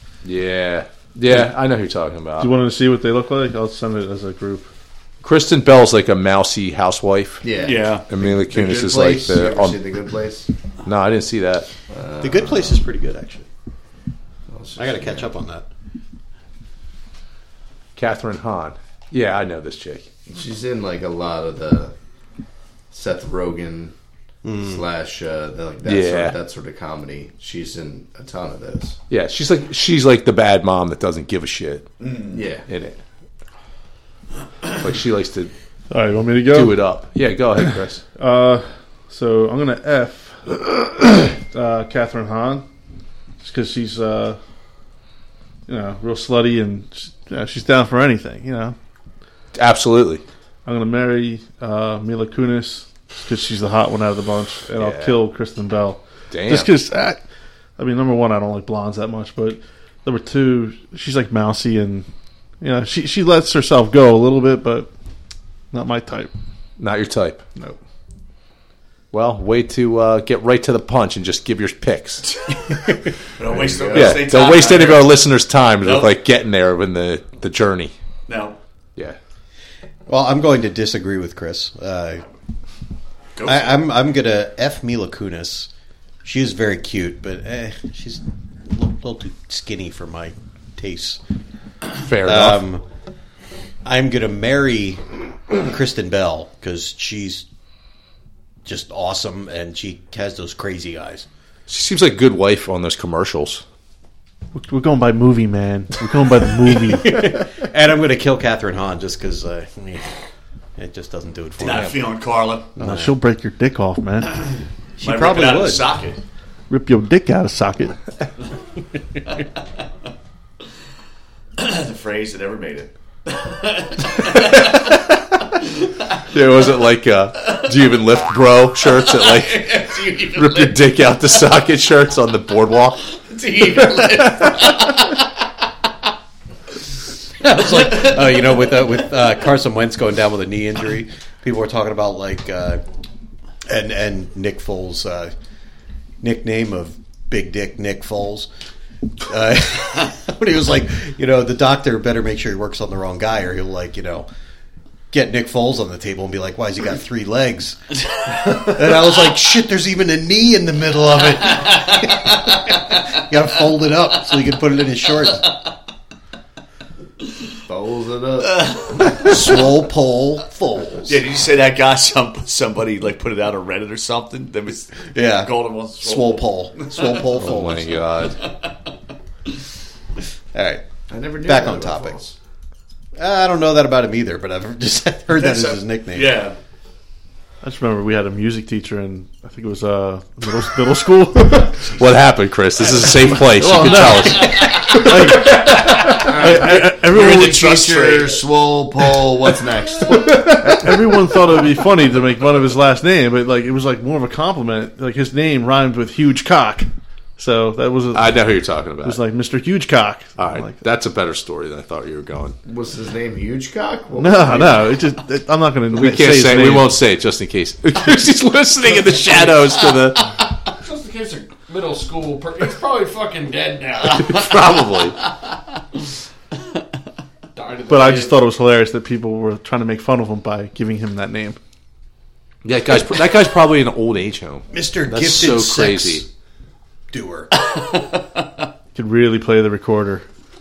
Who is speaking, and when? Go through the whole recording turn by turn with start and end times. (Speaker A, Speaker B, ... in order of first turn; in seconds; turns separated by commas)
Speaker A: 0.2-2.5, Speaker B: 2.4-4.7, Speaker A: 5.2-7.4, Speaker C: 7.4-10.5, Speaker D: 7.5-8.1, Speaker A: 8.1-9.8, Speaker A: 10.8-11.7, Speaker C: 11.9-12.8, Speaker E: 12.2-13.5, Speaker C: 14.5-15.3, Speaker E: 14.8-15.7, Speaker A: 17.9-20.1, Speaker C: 20.3-21.9, Speaker C: 22.9-23.9, Speaker E: 24.4-24.8, Speaker C: 24.6-28.9, Speaker A: 25.9-26.4, Speaker A: 29.1-31.9, Speaker D: 32.0-32.4, Speaker C: 32.3-32.6, Speaker A: 32.7-33.0, Speaker A: 34.8-35.5, Speaker B: 35.9-36.8, Speaker A: 36.5-38.0, Speaker B: 38.2-42.6, Speaker B: 43.4-44.4, Speaker B: 45.7-48.7, Speaker A: 49.5-50.2, Speaker B: 50.6-57.2, Speaker A: 54.8-55.2, Speaker A: 56.3-56.7, Speaker B: 57.8-62.0, Speaker B: 62.6-64.9, Speaker B: 65.7-66.3, Speaker A: 66.8-67.4, Speaker A: 69.1-72.3, Speaker D: 73.4-75.2, Speaker C: 73.5-74.2, Speaker A: 73.9-77.9, Speaker D: 75.8-76.1, Speaker D: 78.3-78.6, Speaker E: 80.1-82.2, Speaker D: 83.4-83.8, Speaker E: 83.4-85.7, Speaker E: 86.2-91.2, Speaker A: 92.0-92.6, Speaker E: 92.2-92.8, Speaker E: 93.8-97.5, Speaker E: 98.6-101.2, Speaker A: 101.7-103.6, Speaker B: 104.5-107.4, Speaker E: 106.7-110.0, Speaker E: 110.8-111.9, Speaker D: 111.6-112.7, Speaker A: 111.6-111.9, Speaker E: 112.8-113.1, Speaker B: 112.8-114.3, Speaker E: 115.0-115.8, Speaker D: 115.0-116.2, Speaker B: 116.7-118.0, Speaker D: 121.6-124.6, Speaker A: 124.3-124.9, Speaker A: 126.3-133.0, Speaker D: 129.0-130.8, Speaker D: 133.2-135.1, Speaker A: 133.8-134.7, Speaker E: 137.4-142.8, Speaker E: 143.7-145.3, Speaker E: 146.2-148.5, Speaker E: 149.2-154.3, Speaker E: 155.1-157.8, Speaker E: 158.4-165.4, Speaker C: 167.7-168.8, Speaker D: 168.6-169.3, Speaker E: 169.1-171.2, Speaker D: 171.0-177.2, Speaker E: 175.1-178.0, Speaker A: 177.3-178.4, Speaker E: 180.5-180.8, Speaker C: 181.1-182.3, Speaker E: 181.4-182.2, Speaker E: 183.2-186.4, Speaker D: 185.3-186.6, Speaker B: 187.6-191.7, Speaker A: 191.4-196.2, Speaker B: 193.4-197.6, Speaker C: 196.1-200.9, Speaker D: 196.1-198.4, Speaker A: 200.1-201.0, Speaker B: 200.6-208.5, Speaker A: 208.1-209.2, Speaker B: 209.0-210.7, Speaker A: 210.4-212.6, Speaker C: 212.7-215.0, Speaker B: 214.2-216.9, Speaker A: 215.9-220.3, Speaker F: 220.8-224.2, Speaker A: 224.0-225.2, Speaker F: 227.5-228.5, Speaker B: 227.9-231.6, Speaker A: 232.6-236.2, Speaker E: 234.7-236.3, Speaker E: 237.1-237.5, Speaker D: 237.7-238.2, Speaker B: 238.9-240.2